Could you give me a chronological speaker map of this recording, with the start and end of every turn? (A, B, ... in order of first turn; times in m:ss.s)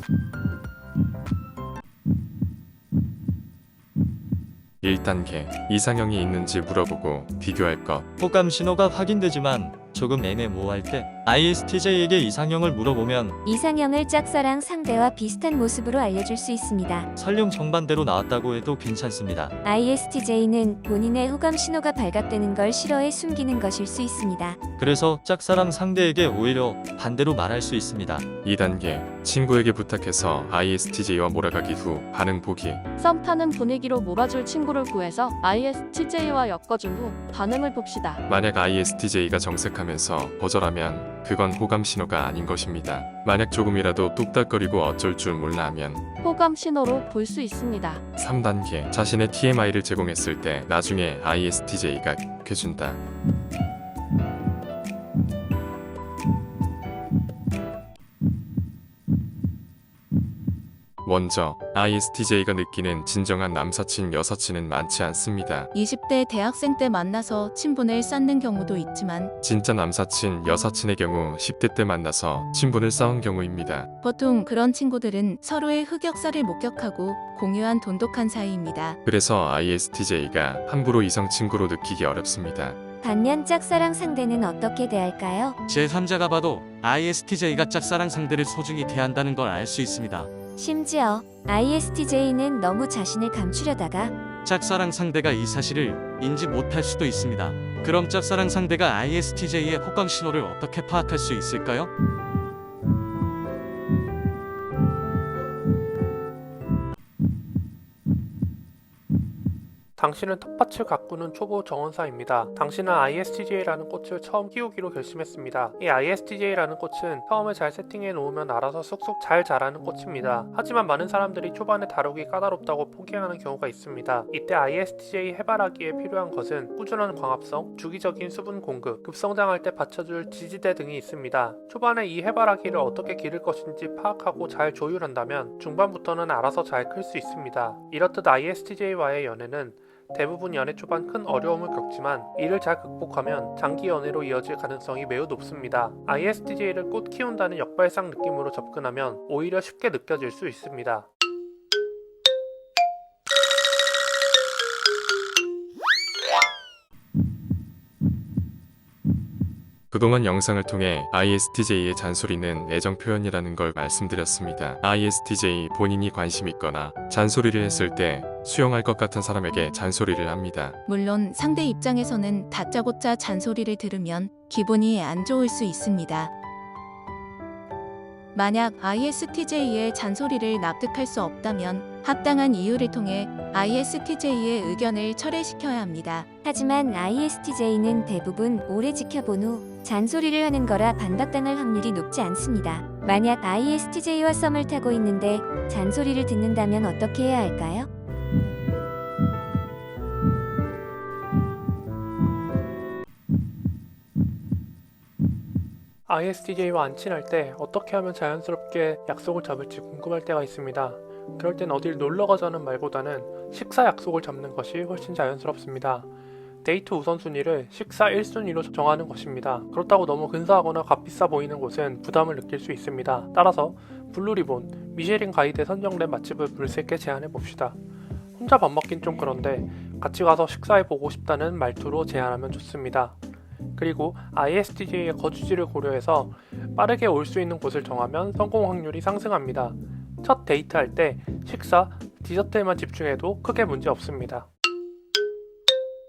0:04.8-0:08.1 A
0:08.2-0:13.4 B
0:13.4-0:17.1 C
0:17.2-0:19.5 B
0:19.6-0:24.6 C
0:24.8-0:28.2 B
0:28.4-0:32.8 A
0:33.0-0:38.2 D
0:38.3-0:46.0 A
0:46.2-0:48.0 D
0:48.2-0:53.0 A
1:01.0-1:05.7 A
1:05.7-1:09.3 E
1:09.4-1:13.9 A
1:14.0-1:19.0 E
1:19.0-1:22.8 A
1:23.0-1:25.6 C
1:25.7-1:30.3 F
1:30.6-1:34.1 C
1:34.4-1:41.9 F
1:50.0-2:31.1 G
2:39.9-2:50.8 A
2:50.8-2:56.3 E
2:58.3-3:06.2 E
3:06.4-3:17.9 C
3:26.1-3:36.1 G
3:36.6-3:47.8 G
3:48.4-3:53.2 G
3:53.8-4:04.5 G